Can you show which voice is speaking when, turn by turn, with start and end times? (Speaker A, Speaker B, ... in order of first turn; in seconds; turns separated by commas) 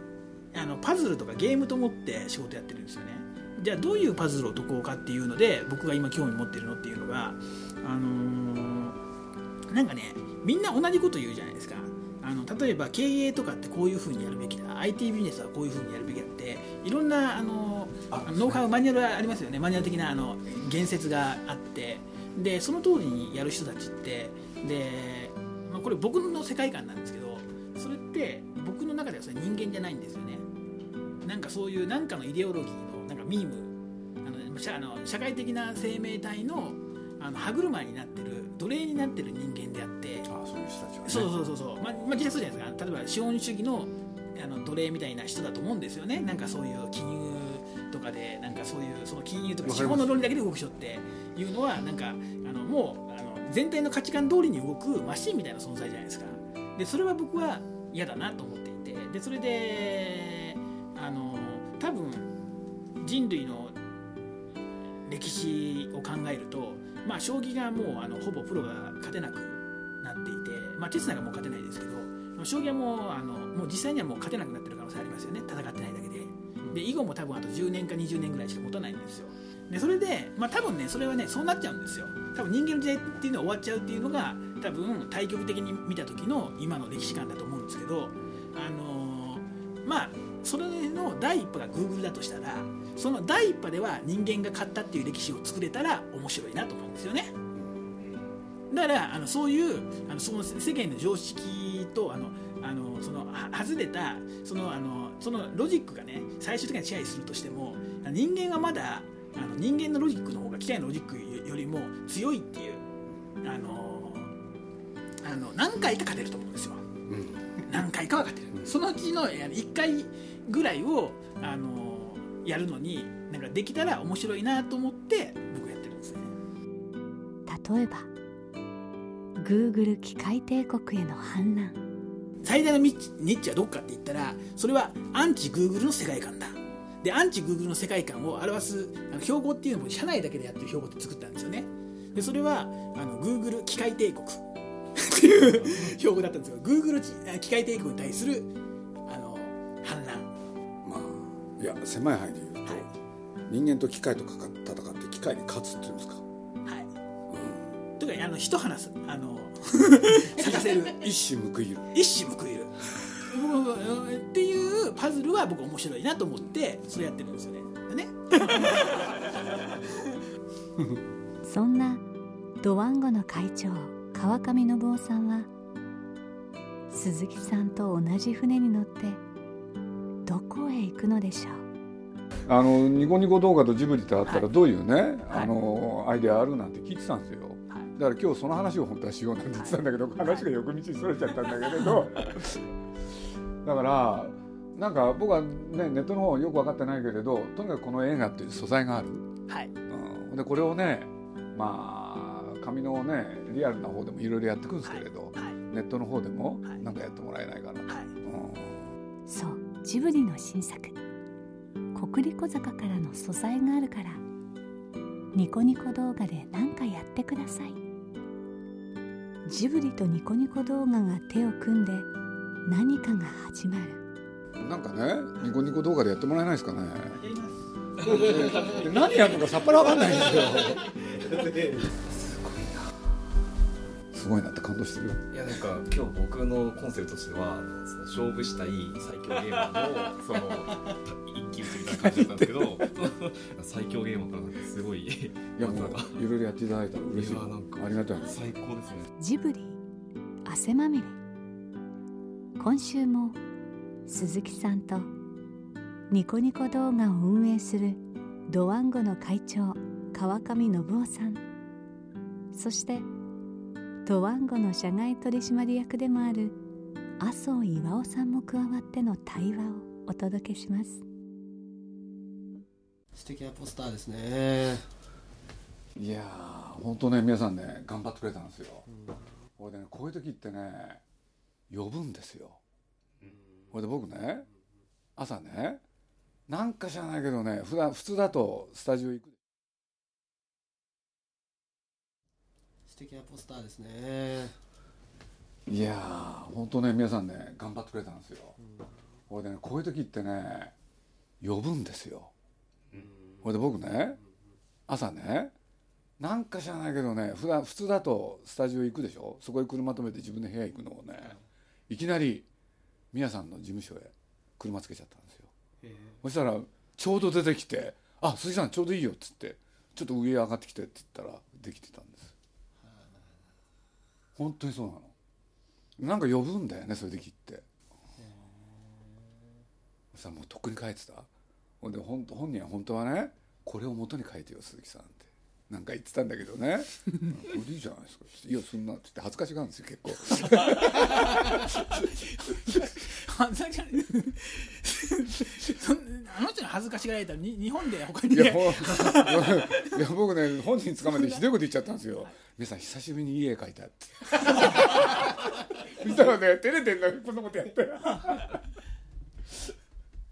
Speaker A: 0.5-9.0, Speaker A: 9.7-30.4, Speaker B: 18.1-18.7, Speaker A: 31.2-40.3, Speaker B: 40.3-41.3, Speaker A: 41.0-62.3, Speaker B: 49.6-50.2, Speaker A: 63.0-63.8, Speaker A: 65.1-97.3, Speaker A: 98.7-112.8, Speaker A: 113.4-114.3, Speaker A: 115.2-116.8, Speaker B: 117.1-117.4, Speaker A: 117.6-126.3, Speaker C: 127.5-128.1, Speaker C: 129.4-131.8, Speaker A: 132.4-144.4, Speaker A: 144.9-148.5, Speaker B: 145.4-146.0, Speaker A: 149.1-150.3, Speaker B: 150.8-152.9, Speaker A: 152.7-152.9, Speaker B: 153.5-156.2, Speaker A: 156.6-156.9, Speaker B: 157.3-157.7, Speaker A: 158.0-161.0, Speaker B: 160.3-161.9, Speaker A: 161.9-169.2, Speaker C: 171.4-172.0, Speaker C: 172.6-175.5, Speaker C: 176.9-179.2, Speaker C: 180.2-181.7, Speaker B: 182.5-192.7, Speaker A: 189.6-190.3, Speaker A: 191.8-192.0, Speaker B: 193.6-199.3, Speaker A: 199.5-199.7, Speaker B: 199.9-208.9, Speaker A: 204.8-205.6, Speaker A: 207.9-208.1, Speaker C: 209.3-211.0, Speaker C: 211.9-214.2, Speaker C: 215.3-217.8, Speaker C: 219.4-222.1, Speaker C: 222.7-224.0, Speaker B: 224.6-227.2, Speaker A: 227.1-227.7, Speaker B: 228.0-230.9, Speaker D: 231.7-232.8, Speaker B: 234.1-235.2, Speaker D: 235.3-246.2, Speaker B: 241.9-242.9, Speaker B: 245.6-248.4, Speaker D: 247.1-249.1, Speaker C: 249.2-249.8, Speaker C: 250.4-251.2, Speaker C: 252.6-253.4, Speaker C: 254.1-255.1, Speaker C: 256.1-261.4, Speaker C: 262.5-263.1, Speaker C: 264.0-266.6, Speaker C: 267.2-271.0, Speaker E: 273.1-274.9, Speaker B: 275.9-278.8, Speaker E: 278.9-279.2, Speaker B: 279.6-281.0, Speaker B: 281.7-282.6, Speaker E: 283.2-283.8, Speaker B: 283.7-284.5, Speaker B: 285.2-285.8, Speaker B: 286.5-289.4, Speaker E: 292.9-294.6, Speaker B: 295.7-298.6, Speaker E: 298.6-298.9, Speaker B: 299.3-300.7, Speaker B: 301.4-302.3, Speaker E: 302.9-303.5, Speaker B: 303.4-304.2, Speaker B: 304.9-305.5, Speaker B: 306.2-311.4, Speaker B: 311.9-312.5, Speaker B: 313.1-315.5, Speaker E: 315.8-316.2, Speaker B: 316.2-322.3, Speaker E: 322.8-323.5, Speaker B: 324.4-325.1, Speaker B: 326.0-327.6, Speaker E: 328.2-329.4, Speaker B: 330.1-331.3, Speaker B: 331.8-342.1, Speaker A: 340.6-349.9, Speaker B: 348.3-358.6